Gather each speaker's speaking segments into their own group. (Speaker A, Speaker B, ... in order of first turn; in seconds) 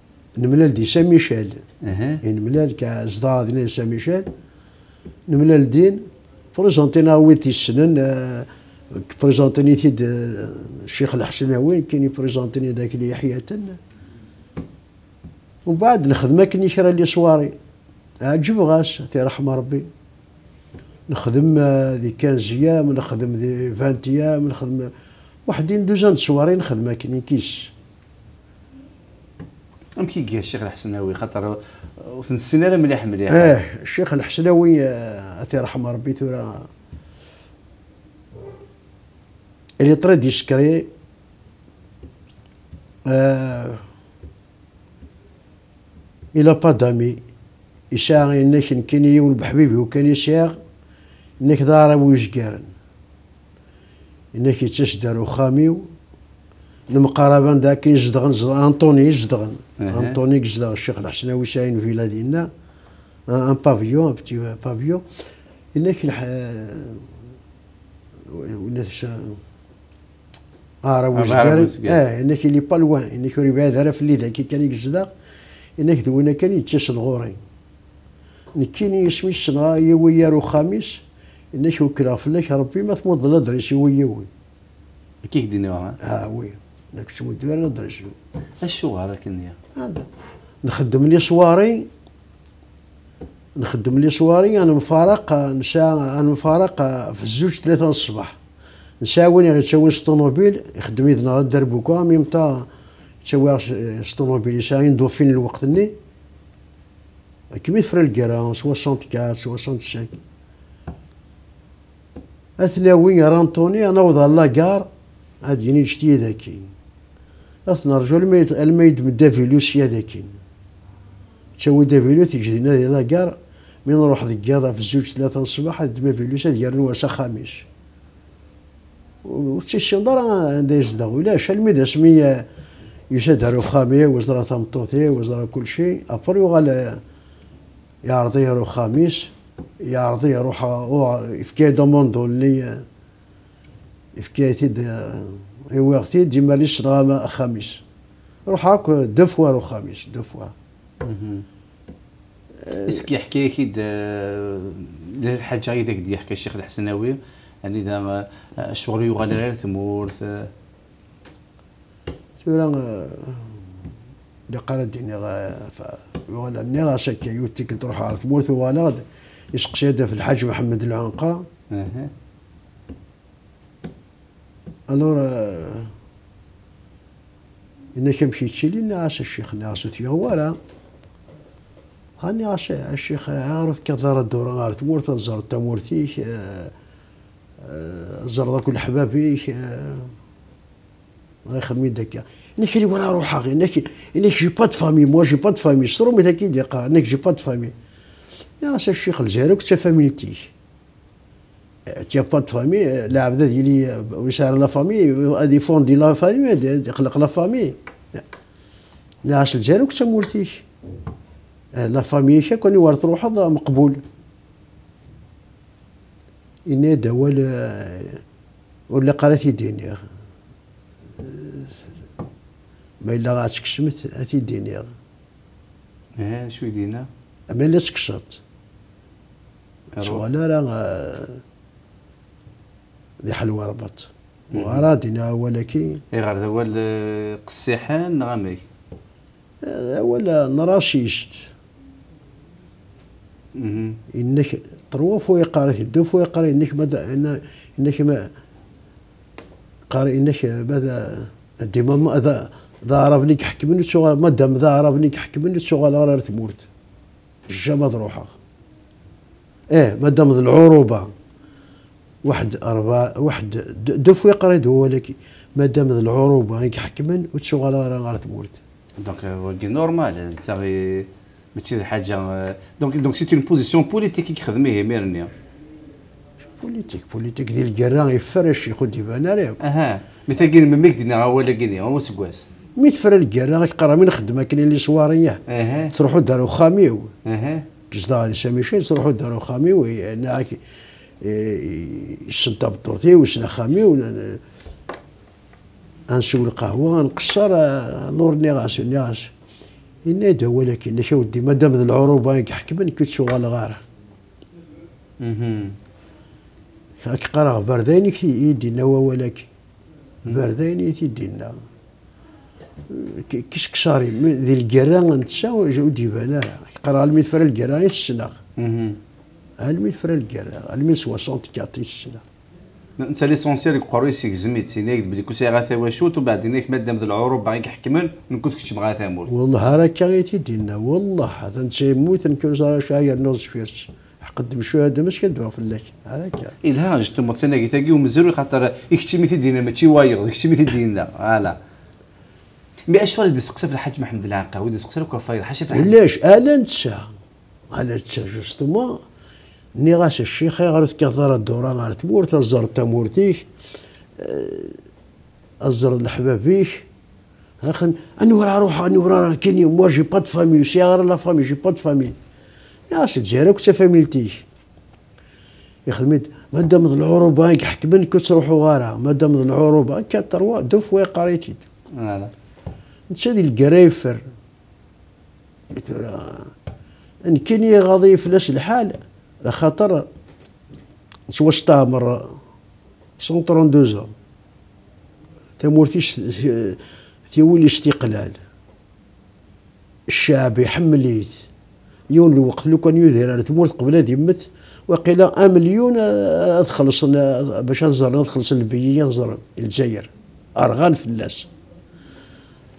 Speaker A: 0.4-1.6, 2.2-4.3, 5.3-6.0, 6.5-13.8, 15.7-17.5, 18.2-19.9, 21.1-24.9, 25.5-27.7, 33.3-36.7, 39.8-40.9, 43.1-43.8, 46.4-47.2, 47.9-50.6, 51.4-52.7, 54.3-55.9, 56.9-62.5, 63.3-65.0, 65.8-67.0, 68.3-69.4, 70.8-75.1, 75.8-77.4, 78.5-81.0, 81.5-84.3, 86.0-88.2, 89.8-90.1, 90.6-91.9, 93.6-98.4, 99.0-102.7, 103.2-105.9, 107.5-110.2, 112.6-114.9, 115.4-116.7, 117.7-120.3, 121.6-123.3, 123.9-127.7, 129.2-132.4, 133.1-137.0, 138.1-142.8, 144.2-147.8, 148.5-150.5, 152.6-153.1, 162.4-163.6, 164.5-171.4, 174.9-175.9, 177.9-180.6, 182.2-186.7, 187.6-190.1, 191.5-197.7, 198.6-200.5, 201.9-208.2, 209.2-210.6, 211.8-214.0, 216.7-218.2, 218.9-220.0, 221.2-221.8, 223.0-224.9, 227.5-228.4, 230.0-231.4, 233.2-236.0, 239.6-241.5, 244.1-248.3, 249.9-256.7, 257.5-258.3, 259.7-261.1, 262.2-268.6, 276.4-279.6, 282.8-285.4, 285.9-287.1, 287.9-290.6, 291.2-294.4, 296.1-299.3, 300.1-303.8, 307.0-309.5, 310.2-311.6, 312.9-318.4, 319.6-322.2, 329.3-336.6, 345.7-347.1, 347.7-349.0, 349.8-353.5, 354.2-354.8, 355.6-356.9, 357.6-362.1, 362.9-364.4, 365.9-371.7, 373.1-374.2, 375.7-376.5, 377.3-380.1, 381.3-382.3, 383.2-384.1, 385.6-386.8, 387.3-388.4, 390.1-391.3, 392.1-401.5
Speaker B: 1.8-2.2, 30.0-33.6, 59.8-60.2, 71.1-72.0, 85.2-86.0, 88.6-89.6, 151.0-151.4, 152.9-160.5, 171.7-172.1, 226.2-227.1, 230.0-230.2, 234.5-234.9, 236.1-238.6, 243.6-244.0, 269.0-275.3, 279.6-282.5, 285.5-285.9, 287.2-287.7, 305.2-305.8, 318.6-319.0, 323.0-329.3, 336.6-341.6, 342.9-346.0, 371.9-372.3